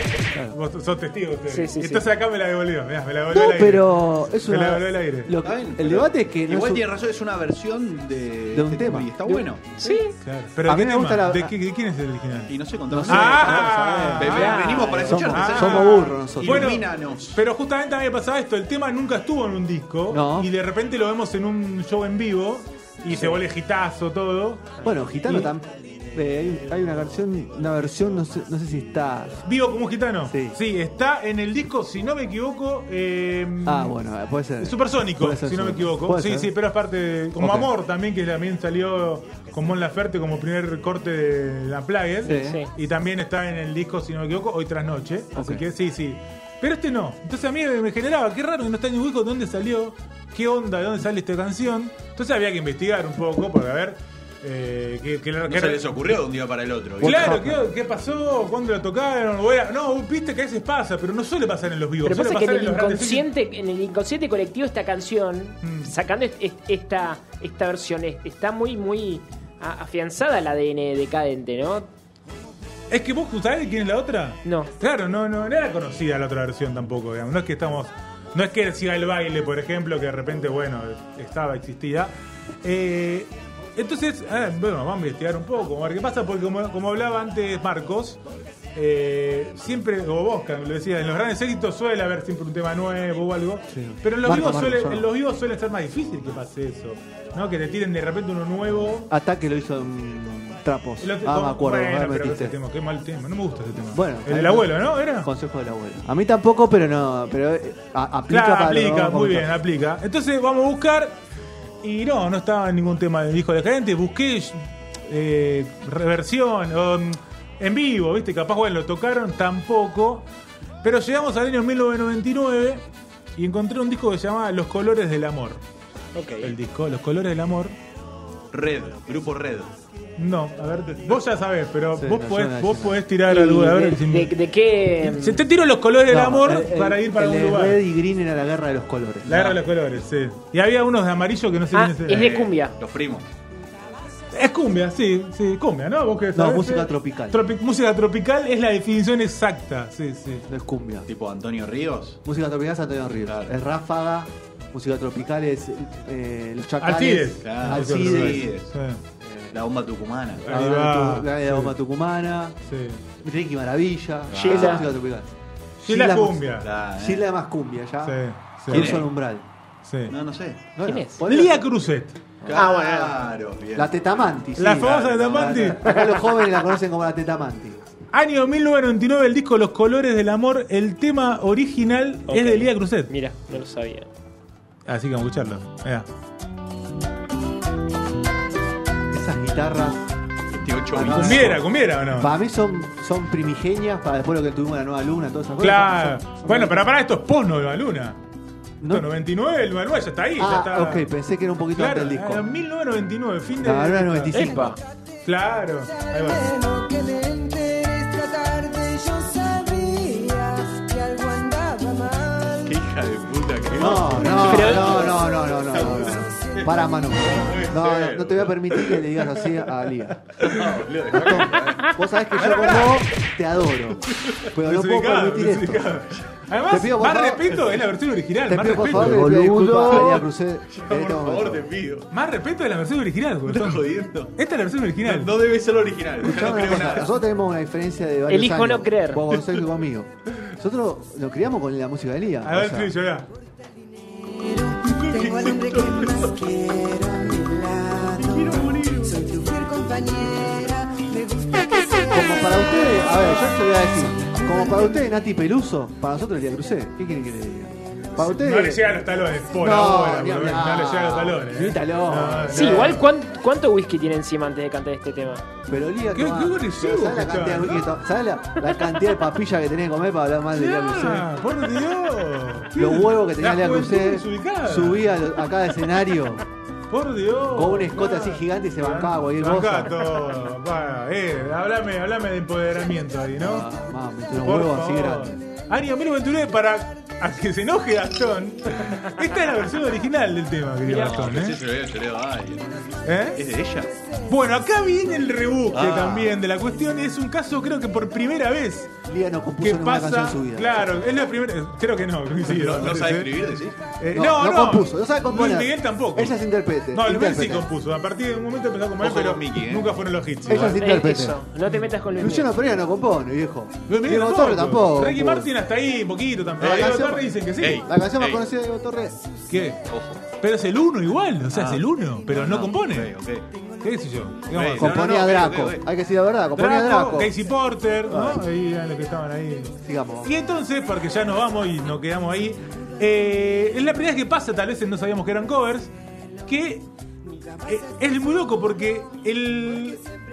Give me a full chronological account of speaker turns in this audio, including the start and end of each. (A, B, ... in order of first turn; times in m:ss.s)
0:00.5-0:05.3 A
0:01.5-0:02.0 B
0:03.3-0:06.9 C
0:05.4-0:09.7 D
0:08.5-0:09.4 C
0:09.8-0:10.1 B
0:10.2-0:24.7 A
0:10.6-0:11.5 C
0:12.5-0:17.4 D
0:12.9-0:16.8 C
0:14.3-0:15.3 B
0:20.1-0:20.5 C
0:23.1-0:23.4 C
0:24.8-0:29.4 C
0:25.2-0:25.5 A
0:29.4-0:33.9 A
0:30.3-0:30.6 C
0:33.6-0:36.5 C
0:34.6-0:56.2 A
0:37.4-0:37.7 C
0:42.2-0:42.6 C
0:42.3-0:42.7 B
0:45.3-0:45.7 C
0:55.5-0:57.4 D
0:57.0-0:57.7 C
0:57.0-1:03.3 A
1:02.0-1:11.9 B
1:05.6-1:05.9 A
1:12.9-1:28.2 A
1:14.4-1:14.7 B
1:28.7-1:39.1 A
1:33.7-1:35.1 C
1:39.1-1:42.6 C
1:41.0-1:45.3 A
1:43.9-1:49.5 C
1:48.3-1:51.2 A
1:51.8-2:00.2 A
2:00.8-2:02.8 A
2:03.4-2:05.6 A
2:06.1-2:06.5 B
2:06.4-2:07.7 A
2:08.5-2:09.7 D
2:10.2-2:14.3 A
2:12.0-2:13.0 C
2:13.3-2:15.4 B
2:15.0-2:17.8 A
2:16.1-2:19.6 C
2:19.2-2:22.3 A
2:19.3-2:19.6 D
2:21.7-2:22.7 B
2:22.1-2:23.3 D
2:24.3-2:30.5 A
2:26.3-2:27.4 C
2:30.5-2:31.1 C
2:31.1-2:32.2 D
2:32.2-2:38.5 C
2:33.2-2:33.5 D
2:36.8-2:39.0 A
2:37.4-2:38.7 D
2:39.2-2:39.5 C
2:39.5-2:40.5 D
2:40.4-2:41.7 A
2:40.5-2:42.6 C
2:42.6-2:43.0 A
2:43.2-2:45.3 C
2:44.3-2:44.9 D
2:44.3-2:44.9 B
2:45.8-2:46.7 A
2:45.8-2:49.4 C
2:46.6-2:47.2 D
2:48.0-2:49.0 A
2:48.7-2:49.0 D
2:49.8-2:50.1 A
2:50.1-2:50.6 D
2:50.8-2:51.6 C
2:50.8-2:51.2 B
2:51.2-2:52.2 A
2:52.4-2:53.9 D
2:52.5-2:53.1 B
2:53.7-2:57.8 C
2:54.6-2:55.8 A
2:54.7-2:55.8 D
2:58.1-3:03.1 A
3:02.3-3:04.1 B
3:04.8-3:06.1 A
3:09.1-3:10.0 C
3:10.5-3:11.6 D
3:10.9-3:16.9 C
3:11.0-3:12.3 A
3:15.6-3:18.2 A
3:18.8-3:19.1 C
3:18.8-3:21.1 A
3:20.4-3:22.4 C
3:21.7-3:24.7 A
3:23.6-3:24.7 C
3:24.3-3:24.8 B
3:25.2-3:26.5 A
3:26.0-3:32.7 E
3:32.6-3:39.0 D
3:33.7-3:40.3 C
3:34.3-3:35.1 B
3:40.4-3:40.8 A
3:40.4-3:42.9 D
3:41.1-3:46.0 C
3:41.6-3:41.9 B
3:42.3-3:43.1 A
3:44.6-3:50.0 A
3:46.7-3:47.7 C
3:48.5-3:51.7 C
3:48.9-3:52.1 D
3:52.1-3:55.4 A
3:53.4-3:54.3 D
3:55.0-3:57.1 D
3:56.2-4:02.9 C
3:58.3-3:59.2 B
4:02.4-4:03.3 A
4:04.2-4:13.5 E
4:05.0-4:06.3 D
4:08.2-4:09.2 D
4:12.1-4:18.9 C
4:14.2-4:15.0 E
4:18.1-4:23.1 A
4:19.6-4:23.0 C
4:22.5-4:25.4 B
4:25.7-4:31.3 C
4:26.1-4:27.9 A
4:30.5-4:35.2 A
4:32.7-4:36.4 C
4:36.9-4:43.7 A
4:37.5-4:40.1 C
4:43.4-4:45.4 C
4:44.3-4:51.6 A
4:50.8-4:52.8 D
4:53.0-4:53.4 A
4:53.4-4:53.9 D
4:54.3-4:58.9 A
4:55.7-4:56.3 D
4:59.0-5:01.0 C
4:59.6-5:06.4 A
5:02.4-5:03.8 D
5:04.1-5:07.6 C
5:06.9-5:10.8 A
5:09.0-5:10.0 D
5:10.5-5:11.4 C
5:10.5-5:12.5 B
5:12.2-5:15.5 C
5:13.9-5:17.9 A
5:16.6-5:17.0 D
5:16.6-5:19.2 C
5:17.6-5:18.4 D
5:19.5-5:23.1 A
5:19.8-5:20.2 D
5:21.5-5:23.4 D
5:23.8-5:25.2 A
5:24.5-5:25.8 D
5:24.7-5:27.4 C
5:26.6-5:35.9 A
5:28.1-5:28.4 C
5:29.8-5:30.3 C
5:36.4-5:36.9 A
5:37.6-5:40.0 A